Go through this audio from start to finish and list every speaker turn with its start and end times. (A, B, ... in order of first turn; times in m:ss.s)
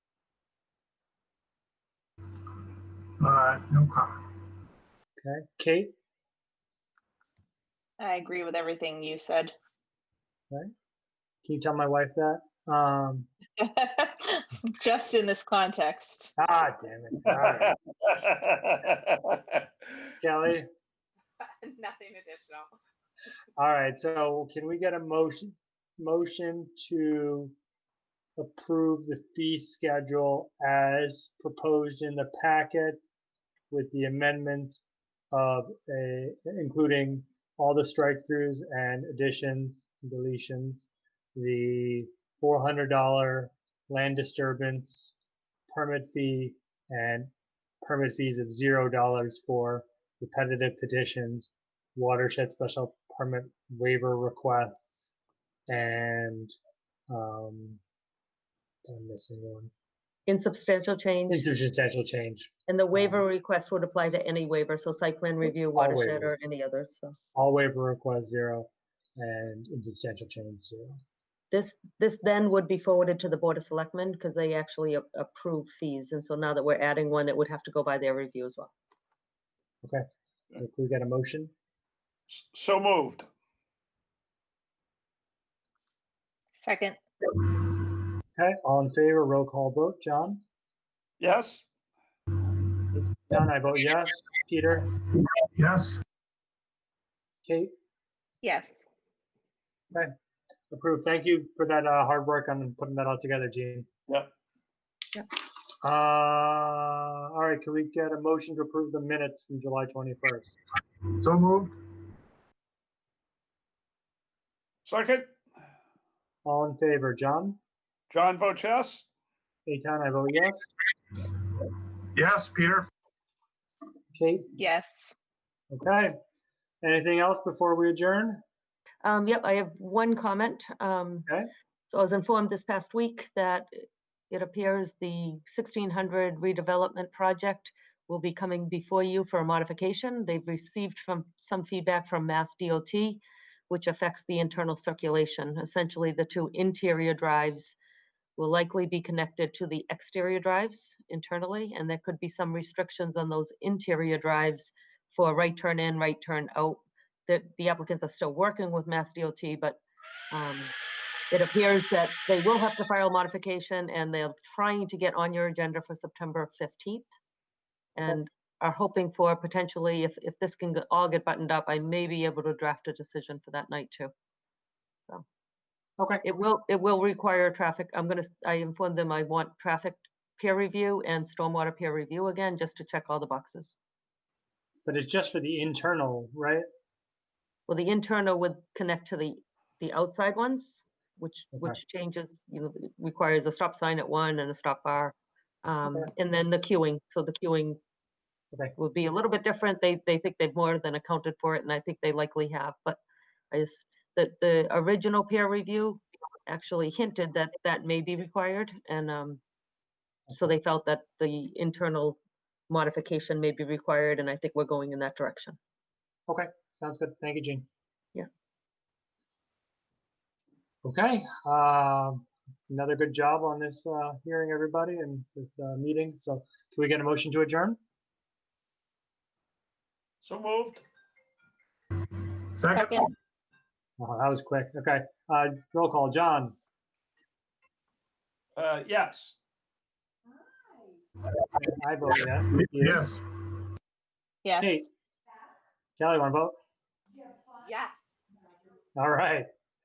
0:03.2-0:04.2 A
0:05.2-0:05.9 B
0:08.0-0:09.5 C
0:11.4-0:13.3 B
0:13.6-0:16.3 C
0:16.4-0:17.8 B
0:18.1-0:19.6 D
0:20.2-0:20.7 B
0:21.8-0:22.6 C
0:23.6-0:27.6 B
0:28.4-0:33.1 B
0:33.7-0:45.2 B
0:45.7-0:47.3 B
0:47.8-0:55.2 B
0:55.7-0:56.5 B
0:57.1-0:57.8 B
0:58.9-0:59.7 B
1:00.3-1:01.5 E
1:01.3-1:03.2 B
1:02.7-1:07.2 E
1:05.5-1:06.4 B
1:07.4-1:11.0 B
1:11.5-1:18.7 E
1:20.6-1:21.5 B
1:22.3-1:23.3 D
1:26.6-1:27.0 C
1:28.4-1:30.4 B
1:31.2-1:31.6 D
1:32.9-1:34.9 B
1:35.6-1:36.0 A
1:37.4-1:37.7 B
1:38.4-1:38.9 C
1:40.7-1:43.9 B
1:45.8-1:50.6 B
1:51.2-1:51.7 A
1:54.9-1:55.3 D
1:56.4-1:57.6 B
1:58.1-1:59.1 D
1:59.7-2:00.7 B
2:02.2-2:02.9 A
2:04.1-2:04.5 B
2:04.6-2:05.2 C
2:05.7-2:06.1 B
2:06.8-2:08.4 B
2:09.0-2:11.3 E
2:11.9-2:13.7 E
2:14.3-2:27.8 E
2:28.4-2:39.8 E
2:40.3-2:40.7 E
2:41.3-2:47.1 E
2:48.0-2:54.1 E
2:56.0-2:56.2 B
2:56.2-3:03.8 E
3:04.9-3:06.7 B
3:07.7-3:17.8 E
3:18.8-3:23.0 E
3:23.5-3:29.4 E
3:30.3-3:32.2 E
3:32.7-3:35.6 E
3:36.3-3:37.7 B
3:40.8-3:47.8 B
3:50.2-3:50.8 D
3:52.6-3:52.9 A
3:52.8-3:53.1 C
3:54.0-3:56.6 B
3:58.6-3:59.4 D
4:01.6-4:03.1 B
4:02.7-4:03.2 A
4:04.4-4:04.8 C
4:04.6-4:04.9 B
4:06.0-4:06.6 B
4:09.0-4:09.5 B